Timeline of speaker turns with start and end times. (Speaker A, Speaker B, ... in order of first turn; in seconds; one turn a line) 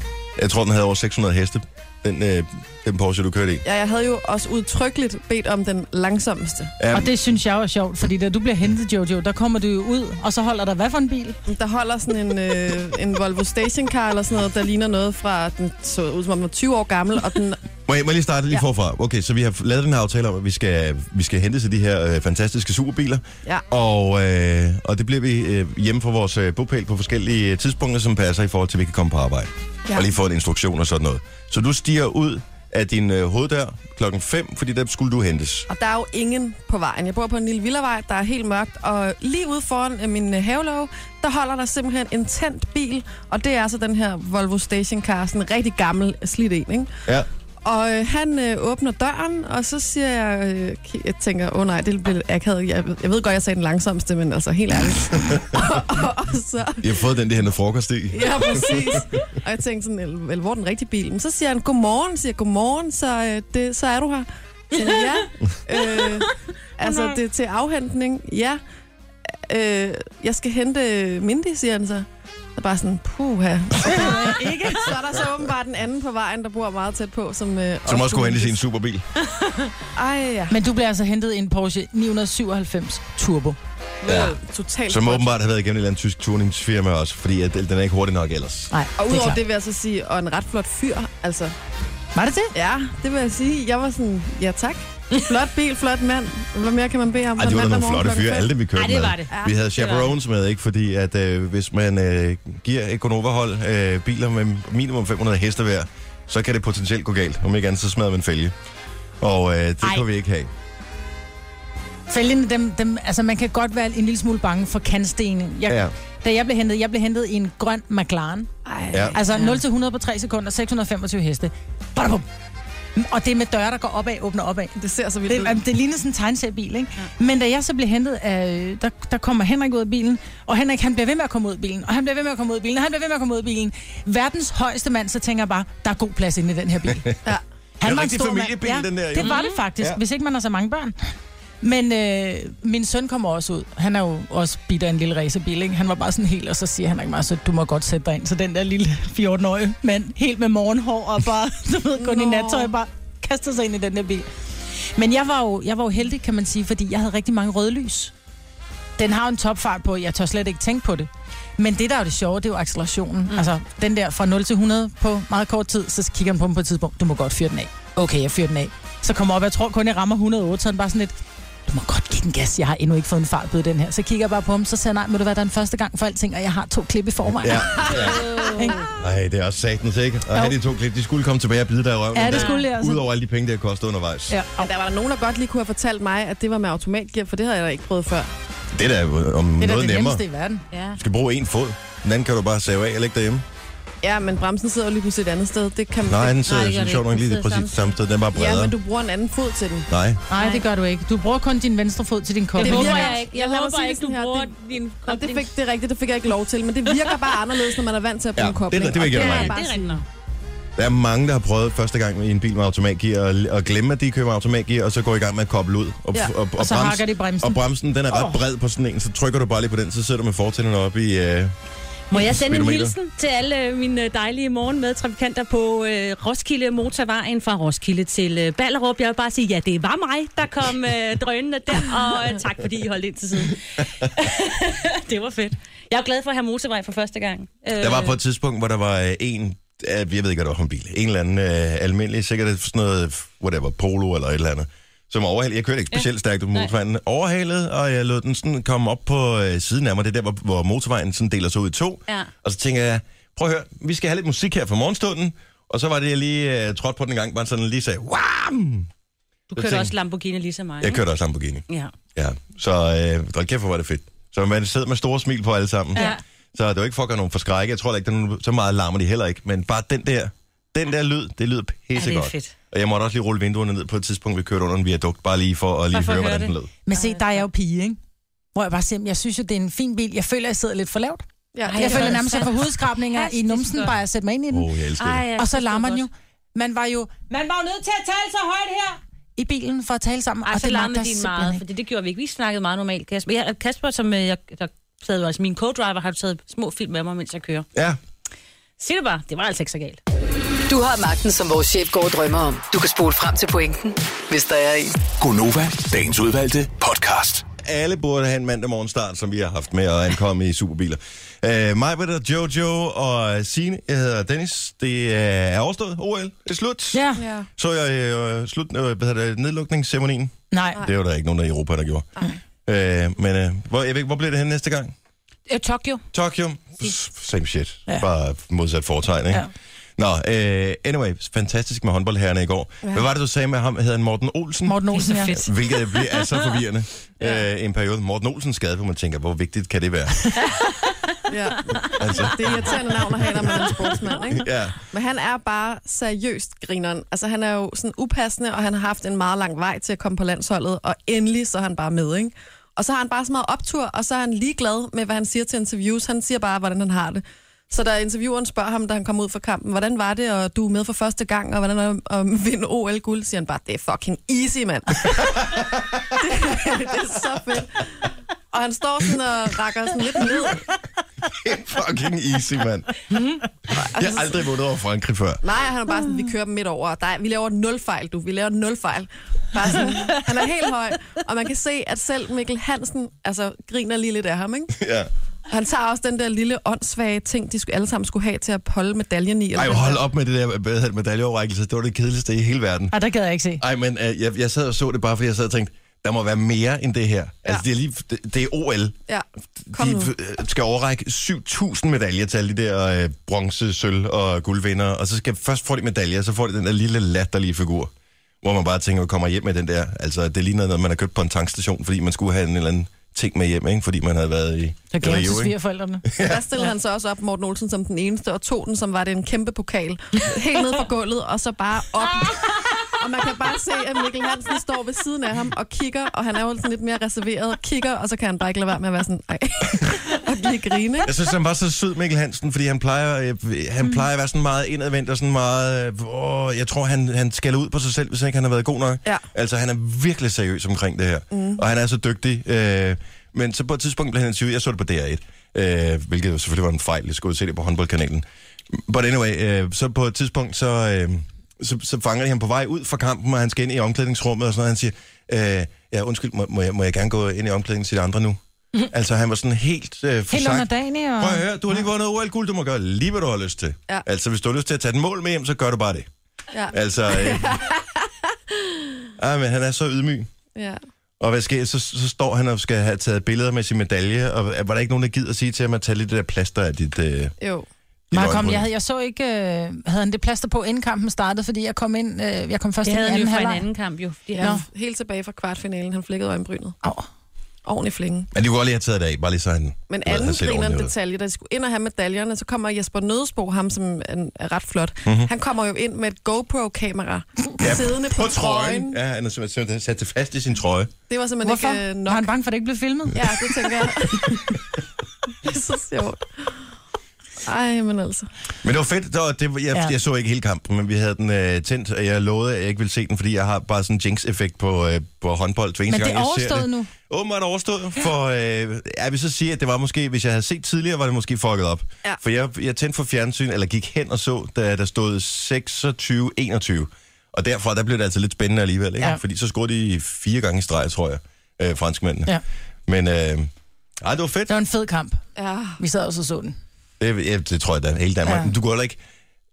Speaker A: 0.4-3.6
Speaker B: 3.6-6.7
Speaker A: 6.8-7.1
Speaker C: 6.9-11.4
Speaker B: 11.5-17.7
Speaker A: 17.9-35.7
Speaker B: 35.7-46.9
Speaker B: 47.6-56.8
Speaker A: 55.3-55.6
Speaker A: 56.8-59.0
Speaker B: 58.1-68.6
Speaker C: 66.8-67.2
Speaker B: 69.5-78.6
Speaker C: 73.8-75.0
Speaker A: 77.8-79.0
Speaker D: 79.3-79.6
Speaker B: 79.9-80.6
Speaker C: 80.5-83.6
Speaker D: 84.0-84.3
Speaker B: 84.0-85.3
Speaker A: 84.0-84.3
Speaker A: 84.9-88.7
Speaker C: 88.7-89.4
Speaker B: 89.0-91.5
Speaker C: 92.2-92.5
Speaker B: 92.5-98.5
Speaker A: 97.4-108.5
Speaker D: 98.7-100.1
Speaker B: 99.3-99.6
Speaker A: 109.2-110.5
Speaker C: 112.1-118.5
Speaker A: 115.7-115.9
Speaker B: 118.6-119.2
Speaker C: 119.1-122.2
Speaker D: 119.3-119.6
Speaker C: 123.0-124.7
Speaker B: 124.8-125.6
Speaker C: 125.3-137.1
Speaker C: 137.8-140.9
Speaker A: 137.8-140.0
Speaker D: 139.2-139.6
Speaker C: 141.6-158.1
Speaker B: 152.0-152.7
Speaker C: 159.0-171.1
Speaker C: 171.7-178.9
Speaker A: 177.4-178.2
Speaker B: 177.9-178.4
Speaker D: 177.9-178.9
Speaker A: 179.0-184.4
Speaker C: 180.3-180.6
Speaker C: 182.1-183.1
Speaker D: 182.3-182.7
Speaker C: 184.3-184.7
Speaker B: 184.6-188.3
Speaker A: 188.7-190.2
Speaker C: 189.6-190.6
Speaker D: 190.7-191.0
Speaker A: 190.9-193.4
Speaker B: 194.0-196.4
Speaker A: 196.1-198.7
Speaker D: 196.4-198.0
Speaker B: 198.3-199.9
Speaker A: 199.9-200.2
Speaker C: 200.3-203.2
Speaker D: 200.3-200.6
Speaker D: 202.6-205.5
Speaker B: 202.6-210.0
Speaker A: 208.3-209.6
Speaker D: 209.1-210.0
Speaker A: 210.8-221.5
Speaker C: 216.6-218.3
Speaker D: 222.1-238.2
Speaker A: 222.1-222.9
Speaker A: 237.8-258.9
Speaker D: 245.9-246.7
Speaker D: 259.5-261.0
Speaker A: 259.5-259.9
Speaker A: 260.8-261.6
Speaker A: 262.1-276.7
Speaker D: 265.9-266.2
Speaker D: 271.9-272.5
Speaker D: 275.9-277.4
Speaker C: 276.8-278.0
Speaker C: 278.5-281.2
Speaker B: 281.5-282.2
Speaker D: 281.7-283.9
Speaker C: 281.8-284.7
Speaker A: 284.5-285.3
Speaker D: 285.0-286.1
Speaker C: 285.4-291.6
Speaker D: 290.4-297.7
Speaker D: 298.8-300.0
Speaker E: 300.7-305.0
Speaker F: 305.0-307.4
Speaker A: 307.6-317.0
Speaker C: 316.9-317.2
Speaker B: 317.2-317.5
Speaker A: 317.6-322.1
Speaker C: 320.5-320.8
Speaker A: 322.6-324.9
Speaker D: 325.5-326.0
Speaker A: 326.1-329.4
Speaker A: 330.0-340.4
Speaker C: 334.6-335.4
Speaker B: 341.3-365.6
Speaker A: 341.8-342.8
Speaker A: 344.3-344.8
Speaker A: 365.2-366.2
Speaker B: 366.2-370.6
Speaker A: 371.2-373.0
Speaker A: 373.7-375.4
Speaker B: 373.7-374.3
Speaker B: 375.4-384.7
Speaker A: 384.8-385.1
Speaker B: 385.5-390.0
Speaker A: 389.5-392.9
Speaker C: 392.9-393.6
Speaker A: 393.6-398.9
Speaker B: 399.1-400.1
Speaker A: 399.6-407.9
Speaker A: 408.4-415.6
Speaker C: 414.9-416.1
Speaker A: 416.1-416.4
Speaker B: 416.2-431.1
Speaker A: 431.0-458.4
Speaker B: 441.3-441.6
Speaker A: 458.9-466.1
Speaker C: 460.3-461.8
Speaker B: 466.5-468.8
Speaker A: 466.7-467.6
Speaker A: 469.2-470.3
Speaker A: 471.2-477.4
Speaker B: 477.4-477.7
Speaker A: 478.1-478.6
Speaker C: 478.1-483.6
Speaker D: 482.8-484.5
Speaker B: 484.3-486.8
Speaker C: 484.4-484.6
Speaker B: 487.6-488.3
Speaker A: 488.3-490.9
Speaker B: 489.9-499.0
Speaker A: 497.6-500.9
Speaker B: 501.1-502.3
Speaker C: 501.4-503.3
Speaker B: 503.1-504.5
Speaker B: 505.4-506.6
Speaker B: 507.4-508.3
Speaker A: 508.6-532.3
Speaker C: 515.9-516.9
Speaker A: 532.9-534.5
Speaker C: 534.5-535.2
Speaker B: 535.4-535.8
Speaker C: 535.8-536.5
Speaker A: 537.0-539.0
Speaker C: 538.2-538.5